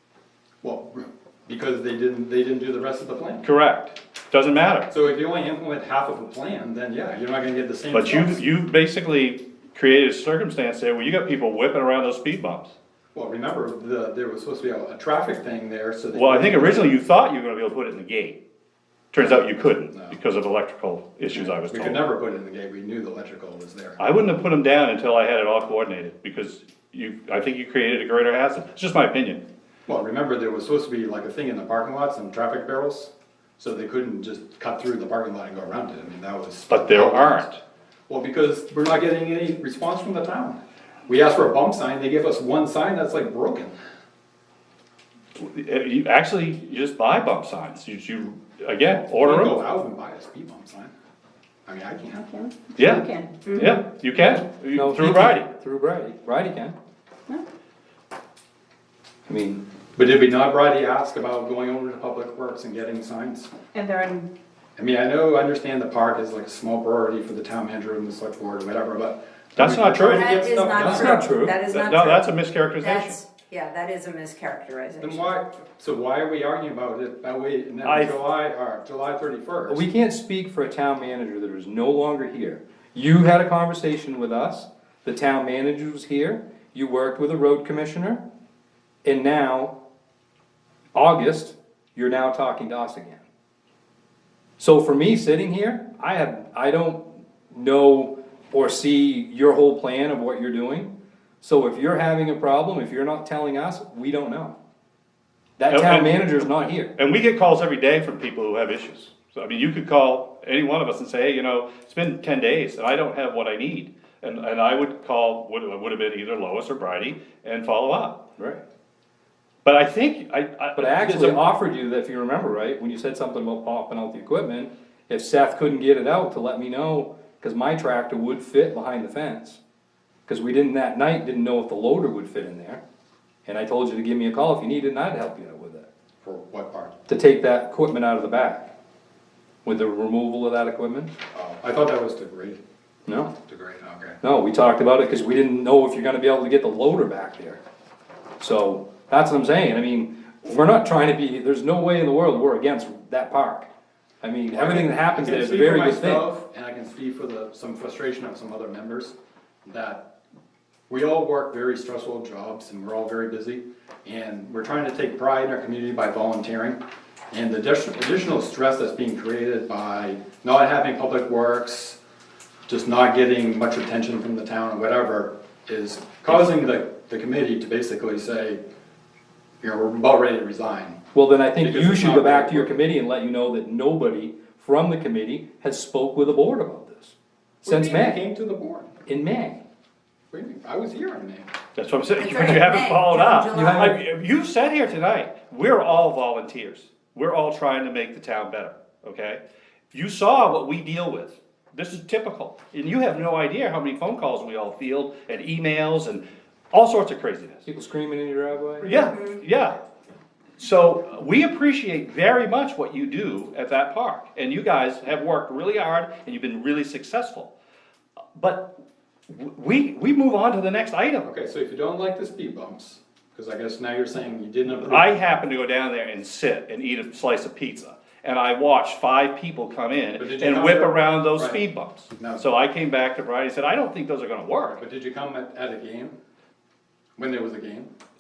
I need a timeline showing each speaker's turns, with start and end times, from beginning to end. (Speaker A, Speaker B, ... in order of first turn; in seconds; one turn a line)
Speaker A: 0.6-3.5
Speaker B: 3.4-4.9
Speaker A: 4.9-8.4
Speaker B: 7.9-12.7
Speaker A: 13.2-16.9
Speaker B: 16.1-18.4
Speaker B: 19.1-22.0
Speaker A: 19.2-20.2
Speaker A: 21.3-24.0
Speaker B: 24.0-29.4
Speaker A: 29.9-37.5
Speaker B: 36.7-37.6
Speaker A: 38.1-43.7
Speaker B: 45.4-49.6
Speaker A: 49.1-50.9
Speaker A: 51.7-52.2
Speaker C: 52.2-53.5
Speaker B: 52.8-55.5
Speaker D: 54.7-56.8
Speaker D: 59.3-59.6
Speaker A: 60.0-63.5
Speaker C: 63.7-64.3
Speaker A: 64.8-71.4
Speaker B: 69.6-70.4
Speaker E: 70.0-75.3
Speaker D: 70.8-71.5
Speaker B: 71.7-73.2
Speaker A: 75.0-79.8
Speaker B: 77.8-78.2
Speaker D: 79.7-88.2
Speaker D: 89.0-89.8
Speaker D: 90.9-93.2
Speaker D: 94.6-104.6
Speaker D: 105.6-106.9
Speaker B: 105.7-118.2
Speaker B: 119.6-121.5
Speaker D: 120.8-129.6
Speaker D: 130.3-132.8
Speaker D: 133.5-135.9
Speaker A: 136.2-136.9
Speaker D: 137.1-138.7
Speaker D: 139.6-141.1
Speaker A: 141.3-142.6
Speaker D: 143.1-143.3
Speaker A: 143.5-144.2
Speaker D: 144.2-147.6
Speaker D: 148.4-153.7
Speaker D: 154.2-156.3
Speaker A: 154.5-160.1
Speaker A: 160.9-166.8
Speaker A: 167.3-172.0
Speaker A: 172.7-178.6
Speaker A: 179.6-181.0
Speaker D: 181.1-188.2
Speaker A: 181.6-182.8
Speaker A: 187.6-188.9
Speaker D: 189.1-189.6
Speaker A: 190.3-191.5
Speaker B: 191.8-199.4
Speaker E: 192.1-194.0
Speaker D: 193.6-193.9
Speaker B: 199.9-207.7
Speaker D: 207.7-209.0
Speaker B: 208.8-209.8
Speaker E: 208.9-209.4
Speaker B: 210.6-217.5
Speaker B: 218.3-218.7
Speaker B: 219.3-221.3
Speaker A: 221.2-225.1
Speaker B: 224.7-234.8
Speaker A: 230.2-231.6
Speaker A: 232.2-232.5
Speaker A: 234.8-236.2
Speaker A: 237.2-237.9